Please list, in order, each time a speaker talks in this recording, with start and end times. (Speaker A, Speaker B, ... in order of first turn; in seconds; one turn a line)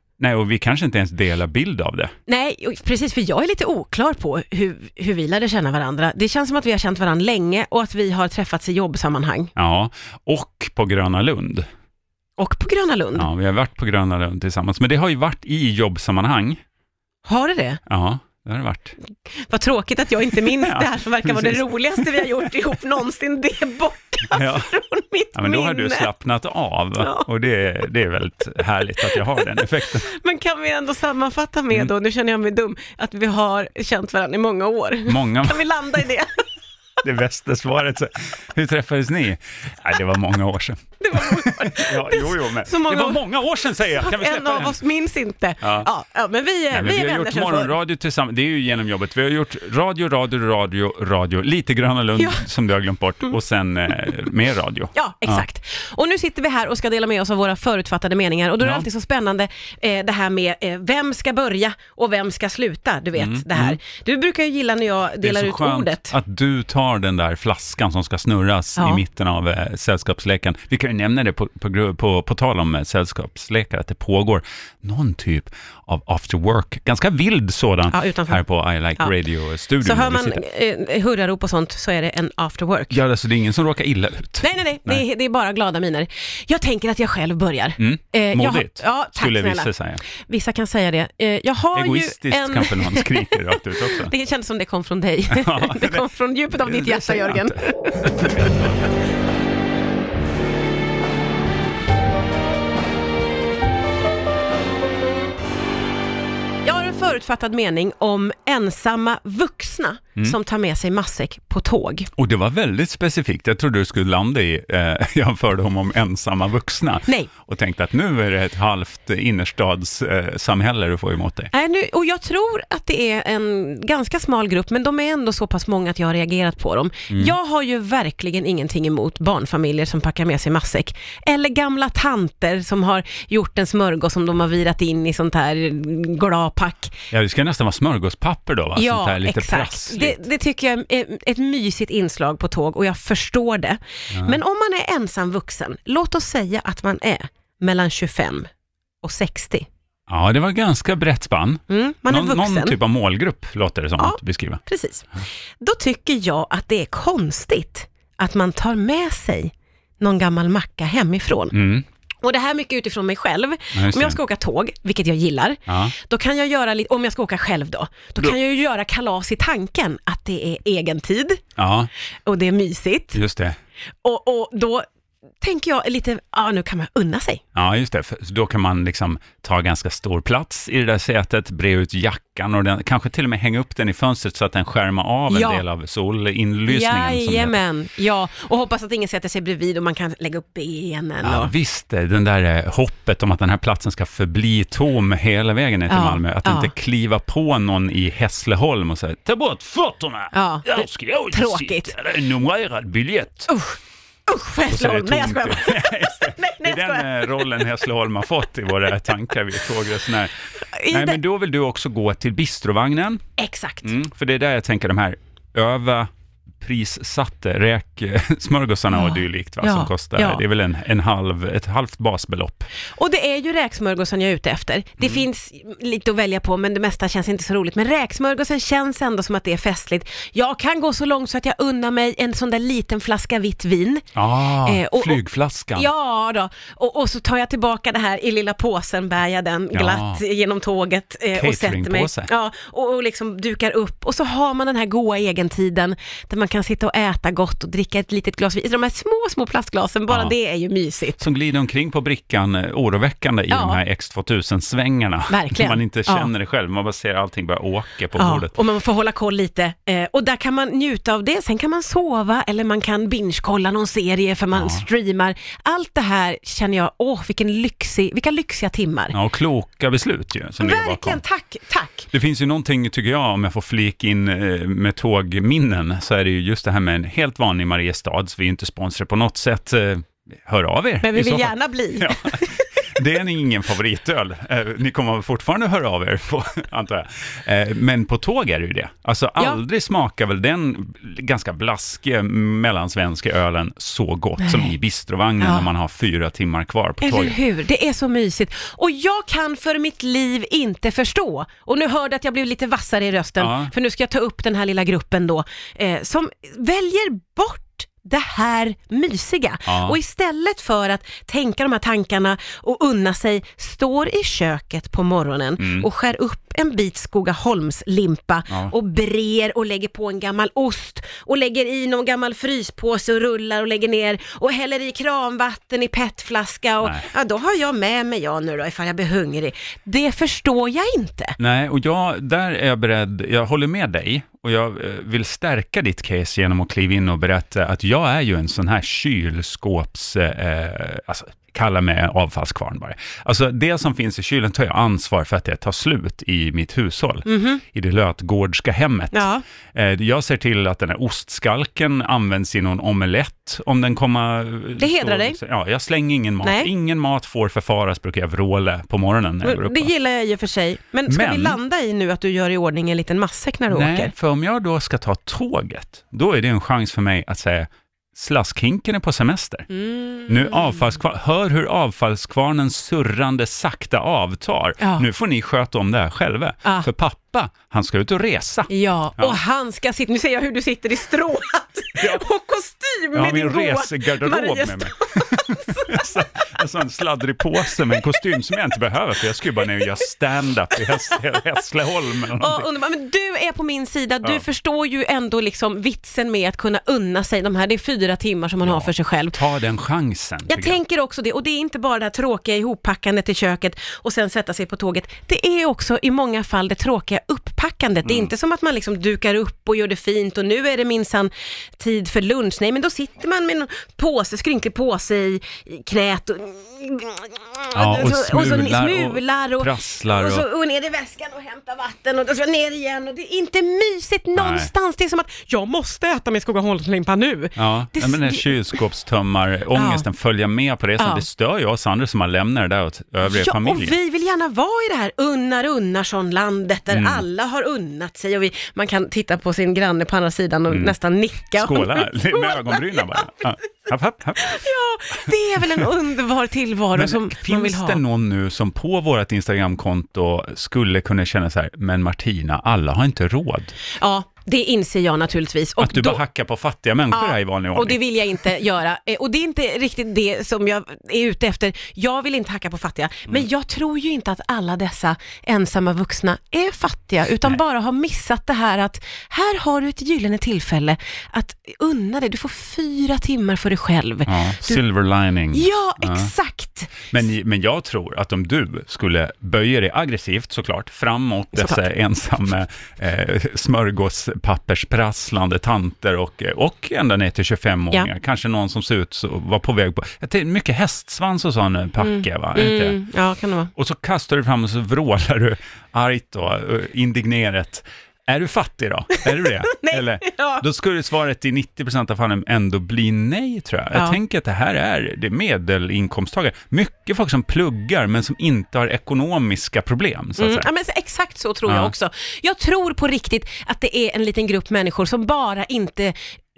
Speaker A: 0.2-2.1
Speaker B: 2.3-9.5
Speaker A: 9.6-11.7
Speaker B: 12.4-13.3
Speaker A: 13.1-16.6
Speaker B: 17.2-17.8
Speaker A: 17.9-18.9
Speaker B: 19.3-26.1
Speaker A: 20.3-22.5
Speaker A: 24.3-24.7
Speaker A: 25.3-30.1
Speaker B: 27.0-27.3
Speaker B: 29.0-36.4
Speaker A: 35.1-35.7
Speaker A: 37.0-44.8
Speaker B: 41.0-43.2
Speaker B: 43.9-47.7
Speaker A: 45.6-45.9
Speaker A: 46.7-55.4
Speaker B: 52.2-52.4
Speaker B: 54.9-66.1
Speaker A: 58.6-58.9
Speaker A: 63.1-63.8
Speaker A: 65.2-80.4
Speaker B: 77.9-78.4
Speaker B: 79.8-83.0
Speaker A: 82.9-85.0
Speaker B: 84.4-98.9
Speaker A: 87.8-90.0
Speaker A: 91.7-94.1
Speaker A: 95.3-98.7
Speaker B: 106.6-112.1
Speaker A: 112.2-121.5
Speaker B: 121.5-137.0
Speaker A: 137.1-140.2
Speaker B: 138.8-148.5
Speaker A: 144.1-144.4
Speaker B: 149.0-149.7
Speaker A: 150.1-154.6
Speaker B: 151.7-152.7
Speaker B: 154.0-155.1
Speaker B: 155.6-161.6
Speaker A: 161.5-161.8
Speaker B: 162.2-171.4
Speaker A: 163.7-164.2
Speaker A: 165.7-165.9
Speaker A: 171.6-171.9
Speaker B: 172.2-173.2
Speaker A: 173.1-173.6
Speaker B: 174.0-174.8
Speaker B: 175.4-177.4
Speaker A: 177.5-187.6
Speaker B: 185.3-185.6
Speaker B: 186.7-191.5
Speaker A: 191.2-203.5
Speaker B: 195.9-196.7
Speaker B: 200.3-201.9
Speaker B: 203.5-207.7
Speaker A: 204.7-210.3
Speaker B: 210.7-211.2
Speaker A: 210.9-213.2
Speaker B: 213.4-213.9
Speaker A: 213.8-222.7
Speaker B: 218.9-220.4
Speaker B: 222.9-234.1
Speaker A: 234.1-235.9
Speaker B: 234.6-235.2
Speaker B: 235.7-251.2
Speaker A: 239.7-240.2
Speaker A: 241.3-242.3
Speaker A: 250.1-250.3
Speaker A: 251.2-258.5
Speaker B: 253.5-253.8
Speaker B: 255.3-256.3
Speaker B: 258.1-269.1
Speaker A: 264.5-264.8
Speaker A: 269.1-271.2
Speaker B: 270.6-272.1
Speaker A: 272.1-297.4
Speaker B: 281.0-282.9
Speaker B: 294.4-294.7
Speaker B: 295.4-295.7
Speaker B: 297.0-331.4
Speaker A: 303.4-303.7
Speaker A: 309.7-309.9
Speaker A: 315.6-315.9
Speaker A: 326.8-327.1
Speaker A: 331.4-359.9
Speaker B: 347.2-347.6
Speaker B: 349.1-349.4
Speaker B: 354.8-355.4
Speaker B: 356.4-356.7
Speaker B: 359.4-364.1
Speaker A: 361.1-361.6
Speaker A: 363.7-369.6
Speaker B: 369.7-370.8
Speaker A: 370.3-379.4
Speaker B: 374.8-375.1
Speaker B: 378.7-386.2
Speaker A: 382.0-382.2
Speaker A: 383.1-392.7
Speaker B: 392.4-399.4
Speaker A: 398.6-400.8
Speaker B: 400.5-428.5
Speaker A: 408.0-408.3
Speaker A: 417.7-420.4
Speaker A: 424.4-424.7
Speaker A: 427.6-433.9
Speaker B: 429.7-430.1
Speaker B: 431.0-431.2
Speaker B: 433.2-443.3
Speaker A: 436.9-437.2
Speaker A: 440.7-440.9
Speaker A: 441.5-444.6
Speaker B: 444.4-448.0
Speaker A: 445.2-445.9
Speaker A: 446.9-453.7
Speaker B: 453.9-456.2
Speaker A: 455.8-458.0
Speaker B: 457.1-474.8
Speaker A: 474.3-476.3
Speaker B: 475.5-477.1
Speaker A: 477.1-493.0
Speaker B: 481.6-481.8
Speaker B: 492.0-493.7
Speaker A: 493.7-510.7
Speaker B: 499.5-500.6
Speaker B: 510.4-516.2
Speaker A: 511.6-511.9